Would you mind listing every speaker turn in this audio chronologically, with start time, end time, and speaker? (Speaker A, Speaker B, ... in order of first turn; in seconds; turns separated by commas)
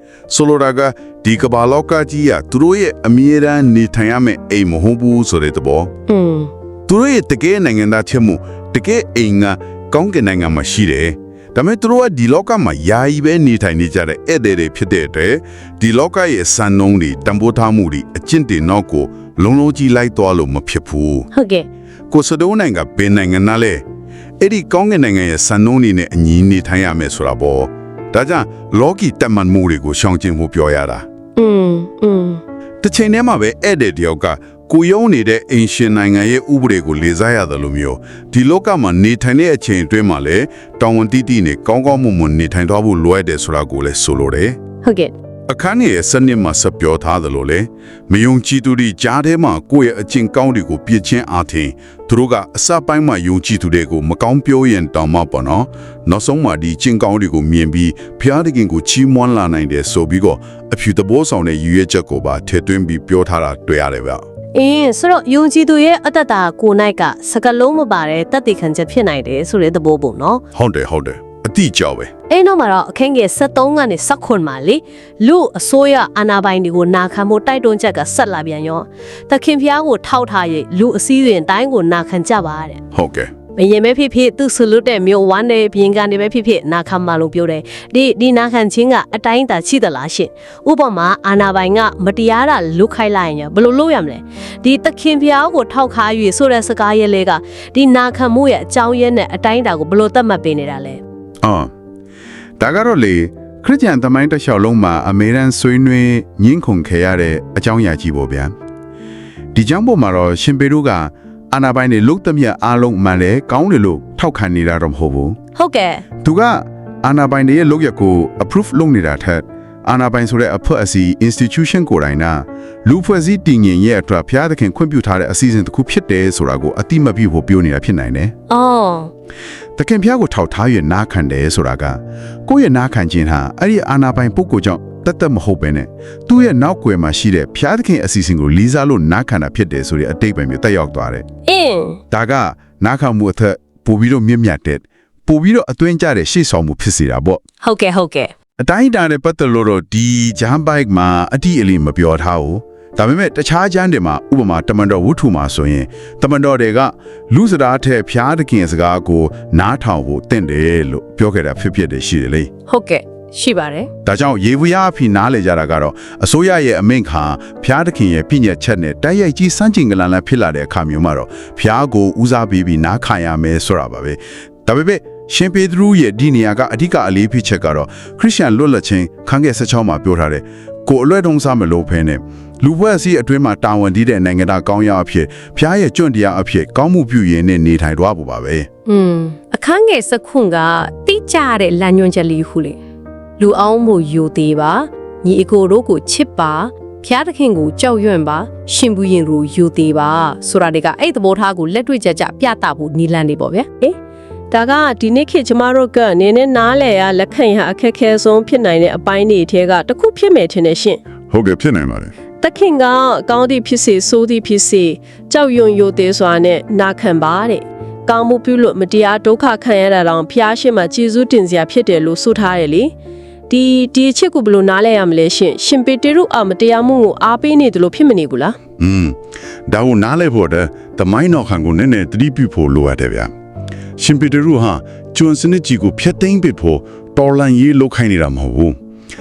Speaker A: 0.3-5.9, Speaker B: 6.1-6.5, Speaker A: 6.9-21.3, Speaker B: 21.3-21.6, Speaker A: 22.1-23.8, Speaker A: 24.4-31.1, Speaker B: 31.4-32.4, Speaker A: 32.8-44.6, Speaker B: 44.8-45.1, Speaker A: 45.5-64.2, Speaker B: 64.5-70.4, Speaker A: 70.5-72.1, Speaker B: 72.3-82.8, Speaker A: 82.9-83.3, Speaker B: 83.5-101.0, Speaker A: 101.4-101.7, Speaker A: 102.6-108.5, Speaker A: 109.5-115.4, Speaker B: 115.5-116.0, Speaker A: 116.2-128.3, Speaker B: 128.5-129.1, Speaker A: 129.8-141.2, Speaker B: 141.4-142.0, Speaker A: 142.1-147.4, Speaker B: 147.6-148.3, Speaker A: 148.6-162.5, Speaker B: 162.7-163.9, Speaker A: 164.0-188.7, Speaker B: 188.8-192.8, Speaker B: 193.4-203.9, Speaker B: 204.5-211.0, Speaker A: 211.3-212.1, Speaker B: 212.4-222.9, Speaker B: 223.5-228.6, Speaker A: 228.8-229.2, Speaker A: 229.7-233.3, Speaker A: 234.0-238.7